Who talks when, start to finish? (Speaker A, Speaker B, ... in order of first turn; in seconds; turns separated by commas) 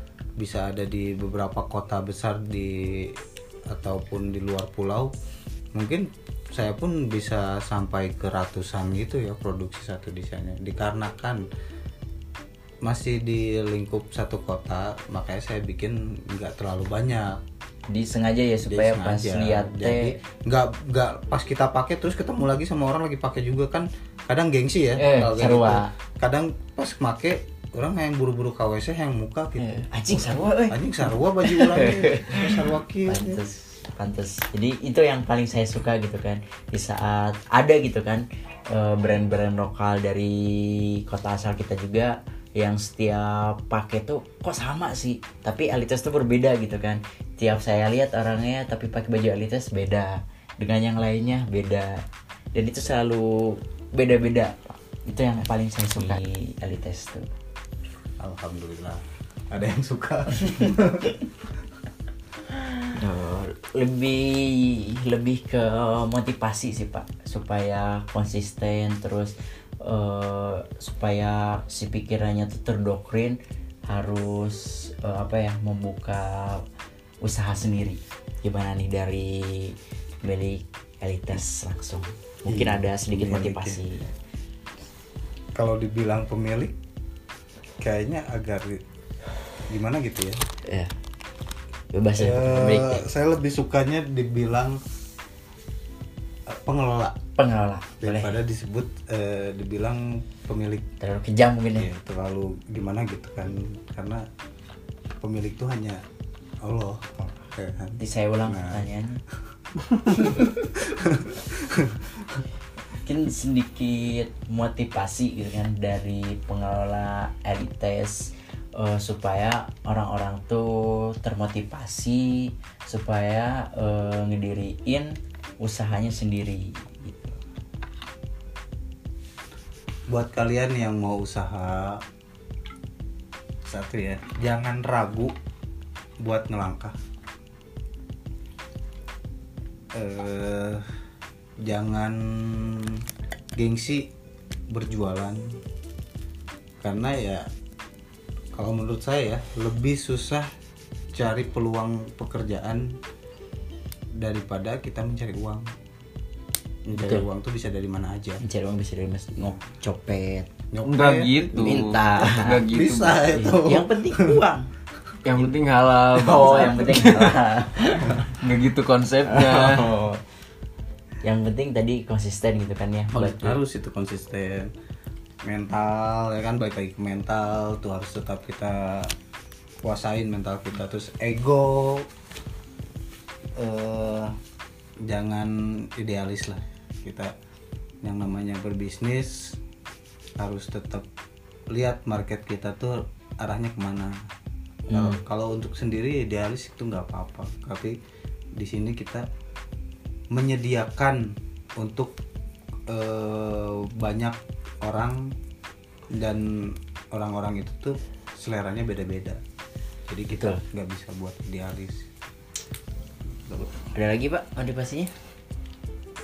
Speaker A: 0.4-3.2, Speaker A: 3.7-5.1, Speaker A: 5.7-11.4, Speaker A: 12.8-17.4, Speaker B: 17.9-20.1, Speaker A: 18.7-29.9, Speaker B: 25.0-25.9, Speaker B: 29.6-30.8, Speaker A: 30.7-33.4, Speaker B: 31.4-57.3, Speaker A: 58.2-61.2, Speaker B: 62.9-76.7, Speaker B: 77.2-84.1, Speaker A: 82.5-83.9, Speaker A: 85.5-86.8, Speaker A: 87.8-88.8, Speaker A: 89.7-90.4, Speaker B: 90.7-90.9, Speaker B: 91.9-93.1, Speaker A: 92.2-94.8, Speaker A: 96.5-97.2, Speaker B: 97.4-98.3, Speaker A: 98.0-100.9, Speaker B: 101.0-101.9, Speaker A: 101.8-104.3, Speaker A: 105.2-106.0, Speaker A: 106.6-108.9, Speaker B: 108.0-109.2, Speaker A: 109.9-112.4, Speaker B: 113.0-127.4, Speaker A: 130.1-132.0, Speaker A: 133.7-135.3, Speaker A: 136.2-137.0, Speaker A: 139.9-140.9, Speaker A: 141.6-143.1, Speaker A: 143.6-144.1, Speaker A: 144.7-145.6, Speaker A: 146.8-147.5, Speaker A: 148.5-150.5, Speaker A: 151.1-153.0, Speaker A: 154.2-155.7, Speaker A: 156.9-158.4, Speaker B: 157.0-157.3, Speaker B: 158.4-160.5, Speaker A: 160.7-161.9, Speaker C: 160.8-163.2, Speaker B: 161.5-162.7, Speaker A: 162.6-164.4, Speaker B: 163.3-164.7, Speaker C: 165.2-167.4, Speaker B: 166.1-168.4, Speaker C: 168.3-169.9, Speaker B: 169.3-170.2, Speaker B: 171.2-173.6, Speaker A: 173.1-174.7, Speaker A: 175.4-179.2, Speaker A: 179.8-182.1, Speaker A: 183.6-184.4, Speaker A: 185.0-187.3, Speaker A: 188.0-189.6, Speaker A: 190.4-191.1, Speaker A: 191.7-194.3, Speaker B: 194.9-195.2, Speaker A: 194.9-198.0, Speaker A: 198.6-199.3, Speaker A: 200.3-202.2, Speaker A: 202.9-205.4, Speaker A: 206.1-209.4, Speaker A: 210.1-212.1, Speaker B: 210.3-210.6, Speaker B: 213.6-215.1